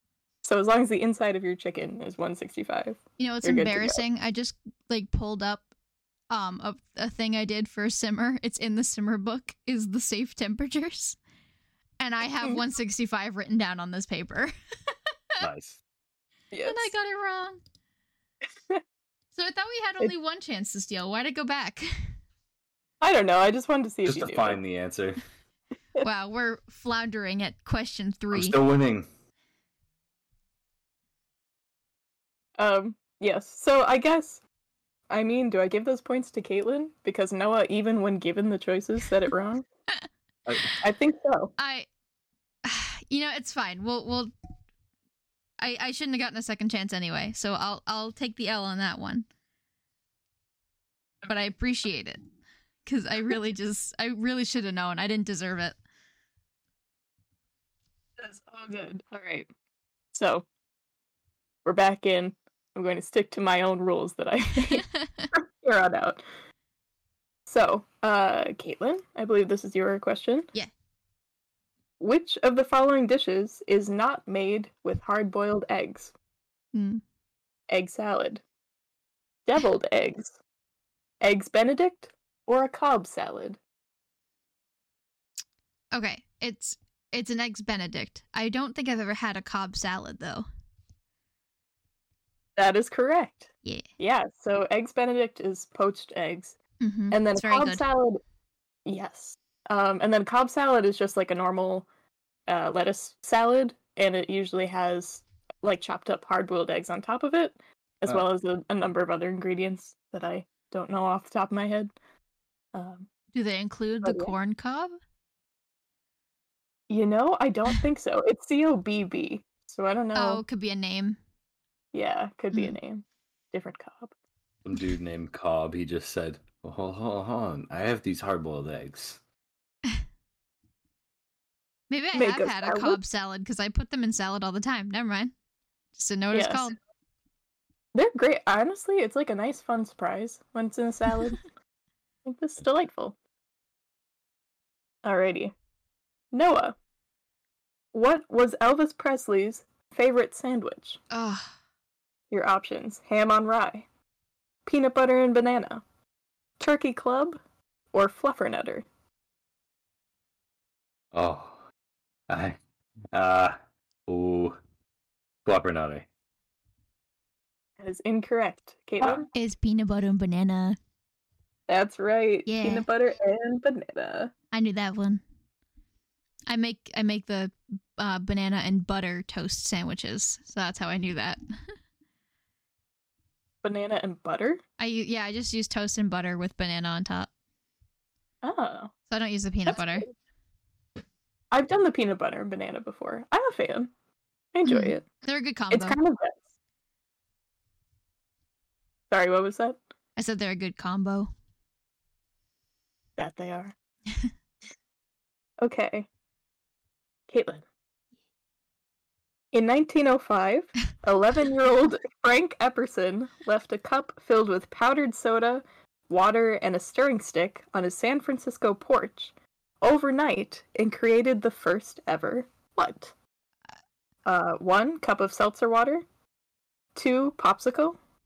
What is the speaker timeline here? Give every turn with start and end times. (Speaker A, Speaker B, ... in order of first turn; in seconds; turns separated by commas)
Speaker A: 0.4-4.0, Speaker B: 3.2-5.7, Speaker B: 6.3-11.2, Speaker B: 12.0-15.4, Speaker C: 15.4-15.8, Speaker A: 16.5-16.9, Speaker B: 16.6-17.6, Speaker B: 19.3-22.1, Speaker A: 23.0-24.6, Speaker C: 24.0-25.2, Speaker B: 26.0-28.6, Speaker C: 28.3-29.1, Speaker A: 32.6-34.4, Speaker A: 35.1-39.6, Speaker C: 40.5-40.8, Speaker A: 40.8-41.5, Speaker B: 41.6-41.9, Speaker B: 42.6-44.3, Speaker B: 45.6-49.2, Speaker B: 51.3-52.2, Speaker B: 52.8-55.8, Speaker A: 58.2-59.5, Speaker A: 60.1-60.4, Speaker A: 61.6-66.2, Speaker B: 64.6-65.3, Speaker A: 67.5-70.5, Speaker A: 72.0-76.1, Speaker B: 76.7-77.0, Speaker A: 77.7-78.4, Speaker A: 79.5-80.3, Speaker A: 81.2-83.6, Speaker B: 85.9-90.5, Speaker A: 92.6-96.5, Speaker B: 96.8-97.8, Speaker A: 97.1-98.2, Speaker A: 98.8-101.9, Speaker A: 102.5-111.9, Speaker A: 112.7-113.1, Speaker B: 113.3-115.0, Speaker A: 114.0-114.3, Speaker A: 116.9-120.4, Speaker B: 120.1-121.2, Speaker A: 121.9-124.1, Speaker C: 124.6-129.2, Speaker B: 131.9-135.3, Speaker A: 132.1-133.0, Speaker B: 135.9-136.7, Speaker A: 136.3-136.7, Speaker A: 137.9-141.4, Speaker A: 142.2-143.2, Speaker A: 145.0-145.5, Speaker A: 146.3-146.8, Speaker A: 147.9-151.0, Speaker B: 151.1-151.5, Speaker A: 152.3-153.8, Speaker A: 154.7-155.8, Speaker A: 156.6-157.4, Speaker A: 157.9-158.8, Speaker C: 161.1-161.6, Speaker C: 162.3-162.6, Speaker C: 163.1-163.6, Speaker C: 164.1-164.6, Speaker C: 165.4-166.1, Speaker A: 167.8-169.3, Speaker B: 169.3-170.8, Speaker A: 171.7-174.3, Speaker B: 172.4-172.9, Speaker B: 174.5-175.2, Speaker B: 176.5-181.4, Speaker A: 183.6-184.6, Speaker B: 184.8-187.3, Speaker A: 188.4-188.9, Speaker B: 189.1-190.1, Speaker A: 189.7-190.1, Speaker A: 191.5-193.9, Speaker A: 194.5-195.0, Speaker B: 194.7-196.0, Speaker A: 195.7-196.4, Speaker A: 199.1-199.8, Speaker B: 200.2-201.3, Speaker A: 203.2-203.7, Speaker A: 205.6-206.1, Speaker A: 207.3-207.6, Speaker A: 209.5-223.1, Speaker A: 224.2-226.0, Speaker A: 226.9-228.0